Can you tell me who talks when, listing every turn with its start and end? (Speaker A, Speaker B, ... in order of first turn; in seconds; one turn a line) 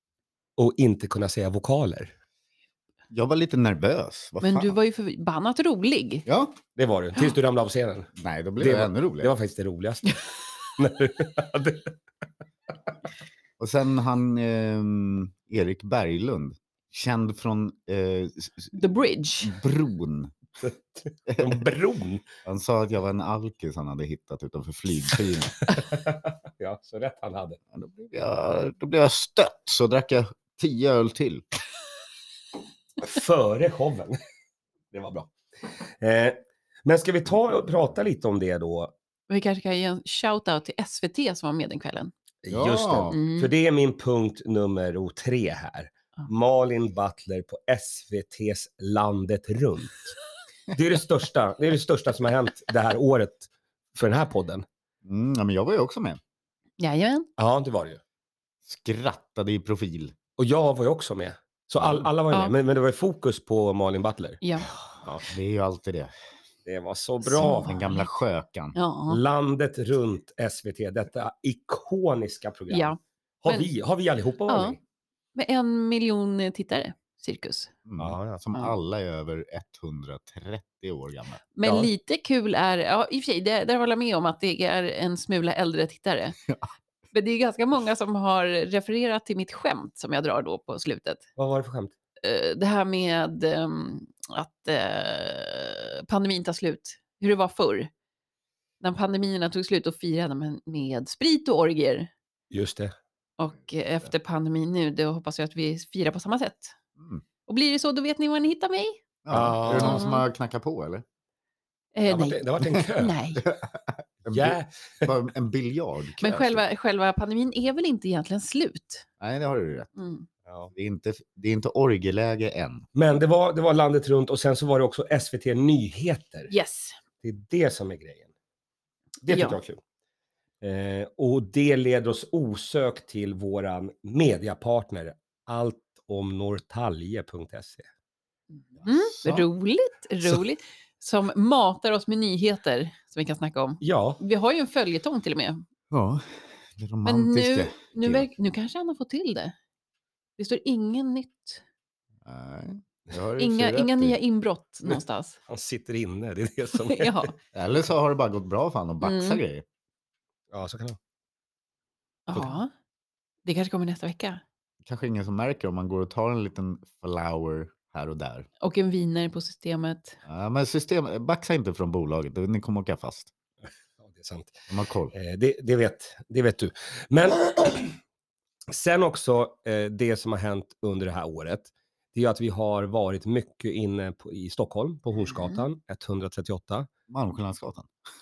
Speaker A: 0.6-2.1
Speaker B: 3.1-4.8
Speaker C: 4.4-6.2
Speaker B: 6.3-6.6
Speaker A: 6.8-8.1
Speaker B: 8.2-9.3
Speaker A: 8.6-10.2
Speaker A: 10.7-11.9
Speaker B: 13.6-18.8
Speaker C: 18.8-19.6
Speaker B: 19.4-20.4
Speaker A: 20.6-22.2
Speaker B: 21.3-21.6
Speaker B: 22.4-25.6
Speaker A: 25.7-27.6
Speaker B: 27.7-31.4
Speaker A: 33.0-34.2
Speaker A: 34.9-35.3
Speaker A: 36.0-38.9
Speaker C: 39.3-42.1
Speaker A: 42.4-50.1
Speaker B: 42.5-43.2
Speaker C: 43.1-43.5
Speaker A: 50.7-54.6
Speaker B: 55.0-56.2
Speaker C: 56.8-57.3
Speaker A: 57.4-58.0
Speaker B: 58.6-60.1
Speaker A: 60.4-64.4
Speaker C: 64.4-64.7
Speaker B: 65.3-66.1
Speaker A: 66.7-67.7
Speaker C: 67.3-68.1
Speaker B: 67.4-68.8
Speaker C: 68.8-69.2
Speaker A: 69.1-74.8
Speaker C: 72.7-73.7
Speaker C: 74.5-74.8
Speaker C: 75.3-77.7
Speaker B: 77.9-81.4
Speaker A: 78.0-78.4
Speaker C: 81.5-86.4
Speaker A: 81.6-81.9
Speaker C: 87.1-91.2
Speaker A: 91.4-91.9
Speaker C: 92.2-97.9
Speaker C: 98.8-102.1
Speaker A: 102.5-102.9
Speaker C: 103.4-106.8
Speaker B: 107.0-107.2
Speaker C: 107.5-109.0
Speaker B: 109.2-111.0
Speaker A: 109.3-110.0
Speaker C: 109.7-110.3
Speaker C: 112.0-113.5
Speaker A: 112.1-113.2
Speaker B: 113.4-116.6
Speaker A: 114.3-115.1
Speaker C: 116.2-119.1
Speaker B: 119.2-119.9
Speaker C: 120.0-120.3
Speaker B: 120.7-122.8
Speaker A: 123.0-126.5
Speaker C: 126.5-127.0
Speaker A: 127.2-128.3
Speaker A: 129.2-129.8
Speaker C: 129.3-129.6
Speaker A: 130.6-137.9
Speaker B: 138.8-139.5
Speaker C: 138.8-145.6
Speaker A: 143.8-144.2
Speaker B: 145.9-148.3
Speaker C: 147.1-149.5
Speaker C: 150.4-151.6
Speaker B: 152.2-154.2
Speaker C: 153.4-155.4
Speaker A: 155.5-157.3
Speaker C: 156.8-157.3
Speaker B: 157.5-159.7
Speaker C: 159.0-159.4
Speaker A: 160.5-161.0
Speaker C: 162.3-162.7
Speaker C: 163.4-164.4
Speaker B: 164.8-168.5
Speaker C: 168.6-170.2
Speaker B: 170.2-173.3
Speaker A: 174.0-178.0
Speaker B: 174.7-175.1
Speaker A: 178.7-186.9
Speaker C: 185.3-185.6
Speaker B: 187.1-187.9